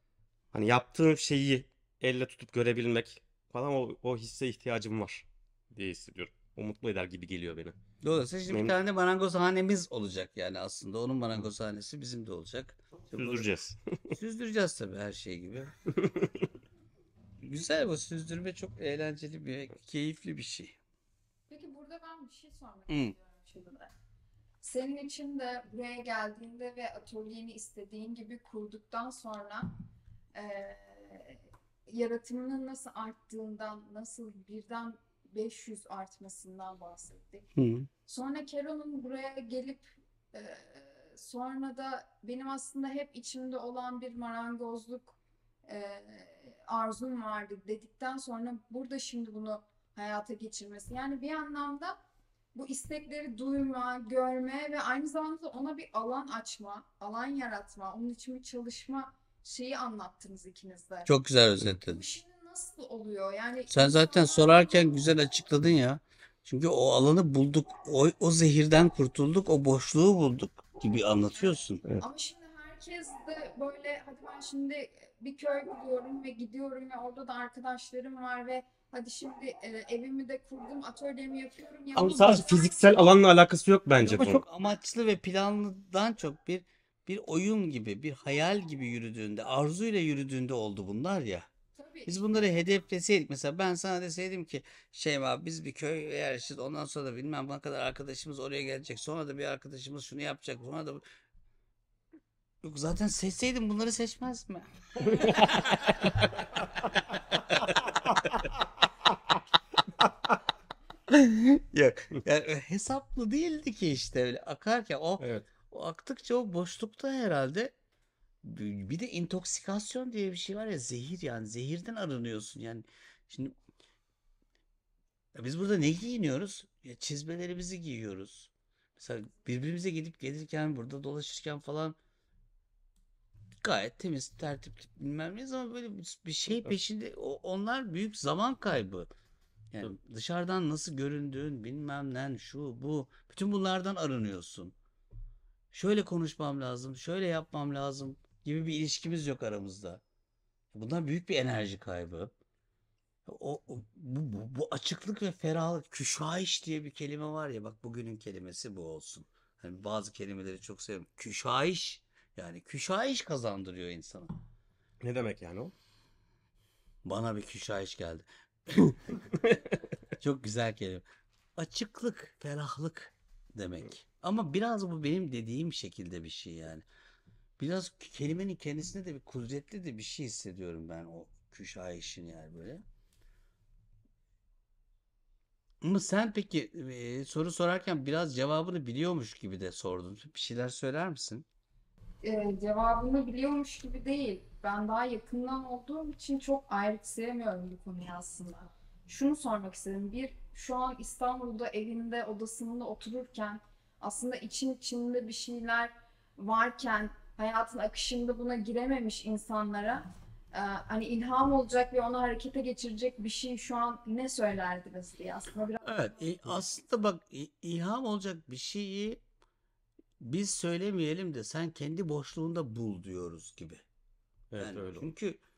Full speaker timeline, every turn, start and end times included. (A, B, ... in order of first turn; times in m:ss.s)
0:00.5-0:07.8 A
0:08.0-0:13.5 B
0:08.5-0:08.8 A
0:13.1-0:14.1 A
0:14.1-0:15.7 B
0:15.9-0:16.5 A
0:17.4-0:20.8 B
0:21.5-0:23.9 C
0:22.9-0:23.1 B
0:24.6-0:29.8 C
0:30.3-0:37.5 C
0:37.6-0:37.9 B
0:38.1-0:52.0 C
0:52.6-1:01.1 C
1:01.1-1:02.0 B
1:01.9-1:04.9 C
1:03.7-1:11.8 B
1:12.0-1:22.8 C
1:22.0-1:24.4 A
1:24.0-1:31.5 B
1:31.8-1:32.2 C
1:32.1-1:41.0 B
1:42.6-1:46.3 B
1:45.3-1:45.7 A
1:47.3-1:47.6 B
1:51.1-1:57.7 B
1:55.2-1:55.5 A
1:58.4-2:03.6 B
2:05.4-2:12.0 B
2:13.6-2:19.1 B
2:19.7-2:24.8 B
2:25.7-2:30.0 B
2:30.7-2:32.3 B
2:33.3-2:44.3 B
2:45.0-2:45.7 A
2:47.0-2:49.6 B
2:50.2-2:51.0 B
2:51.6-2:56.8 B
2:57.6-3:02.8 B
3:05.8-3:11.4 B
3:12.2-3:36.2 C
3:35.8-3:39.2 B
3:40.2-3:43.8 B
3:44.5-3:45.1 A
3:44.6-3:45.4 B